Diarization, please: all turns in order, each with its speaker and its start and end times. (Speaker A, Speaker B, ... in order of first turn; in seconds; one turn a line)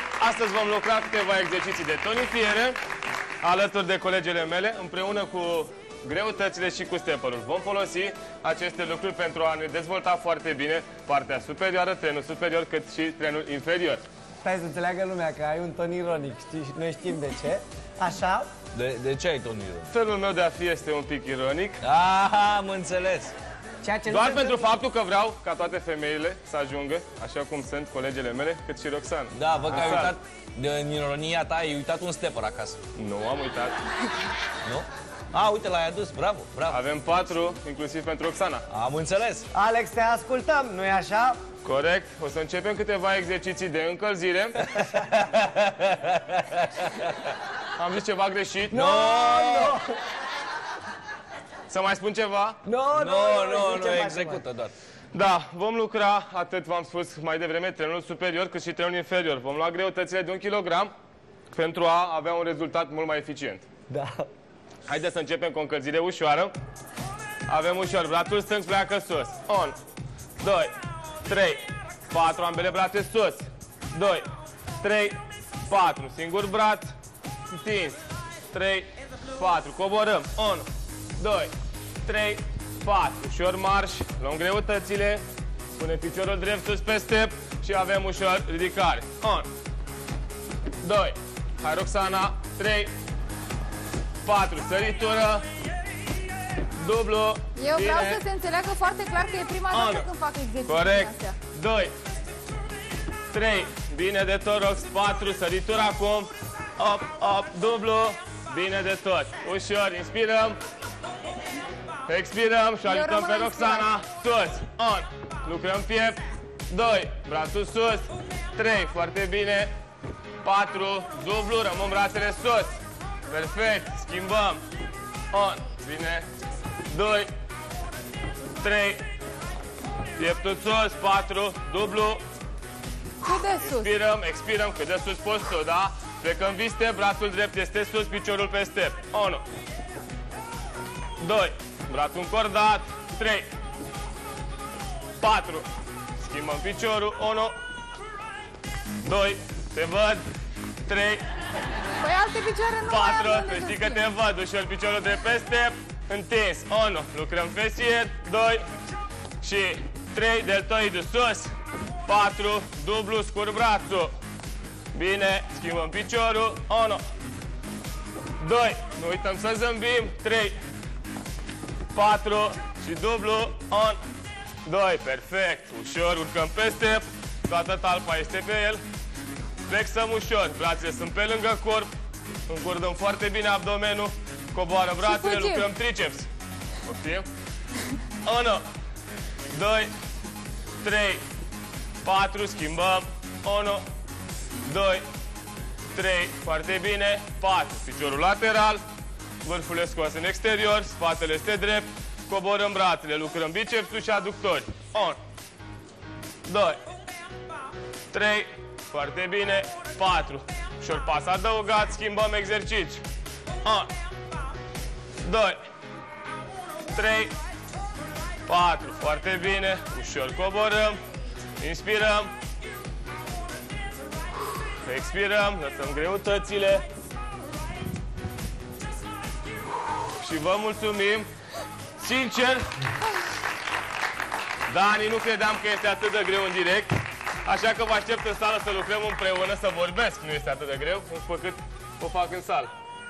Speaker A: 0.2-2.8
Speaker A: 3.4-14.0
Speaker B: 14.4-18.5
Speaker C: 18.7-19.9
Speaker A: 19.9-21.8
Speaker C: 21.8-23.3
Speaker B: 23.8-24.7
Speaker A: 24.0-30.1
Speaker C: 29.3-32.8
Speaker B: 29.6-30.1
Speaker A: 33.0-33.8
Speaker C: 34.6-36.8
Speaker A: 36.7-38.6
Speaker C: 38.7-39.5
Speaker B: 39.5-41.4
Speaker A: 41.6-44.7
Speaker C: 44.7-47.1
Speaker A: 47.8-48.8
Speaker B: 48.7-49.9
Speaker C: 48.7-49.8
Speaker A: 51.7-52.6
Speaker B: 52.6-54.4
Speaker C: 52.9-54.7
Speaker A: 55.1-60.9
Speaker A: 61.5-63.6
Speaker B: 63.9-64.3
Speaker A: 64.9-66.5
Speaker A: 67.5-69.8
Speaker A: 70.4-70.7
Speaker A: 71.2-74.2
Speaker A: 74.8-76.9
Speaker A: 77.5-80.7
Speaker A: 81.2-81.5
Speaker A: 82.0-85.2
Speaker A: 85.8-89.5
Speaker A: 90.8-92.9
Speaker A: 94.2-95.4
Speaker A: 96.8-98.2
Speaker D: 97.5-101.3
Speaker A: 99.7-100.1
Speaker A: 100.7-101.9
Speaker A: 103.3-110.6
Speaker A: 112.0-119.7
Speaker D: 112.8-113.9
Speaker A: 120.4-122.8
Speaker A: 123.3-124.6
Speaker A: 125.3-126.2
Speaker A: 126.9-127.3
Speaker A: 128.6-129.0
Speaker A: 130.2-132.2
Speaker D: 133.2-133.9
Speaker A: 133.6-139.4
Speaker A: 141.2-143.5
Speaker A: 145.2-145.7
Speaker A: 146.2-147.5
Speaker A: 149.0-150.2
Speaker A: 150.8-151.2
Speaker D: 152.0-154.0
Speaker A: 152.8-158.6
Speaker A: 159.4-161.5
Speaker A: 162.1-164.1
Speaker A: 164.9-167.0
Speaker A: 168.4-170.6
Speaker A: 171.9-174.0
Speaker A: 174.6-178.8
Speaker A: 179.7-181.9
Speaker A: 182.5-186.3
Speaker D: 185.0-185.7
Speaker A: 186.8-187.2
Speaker A: 188.2-188.6
Speaker A: 189.5-189.9
Speaker A: 190.8-191.2
Speaker A: 192.0-193.8
Speaker A: 194.6-195.0
Speaker A: 195.9-198.8
Speaker A: 199.4-205.2
Speaker A: 206.4-206.8
Speaker A: 208.1-213.0
Speaker A: 213.6-213.9
Speaker A: 215.2-215.6
Speaker A: 216.9-217.3
Speaker A: 218.5-221.0
Speaker A: 221.6-222.3
Speaker A: 224.8-226.8
Speaker A: 230.2-231.3
Speaker A: 232.0-232.6
Speaker A: 234.7-236.9
Speaker A: 237.4-242.7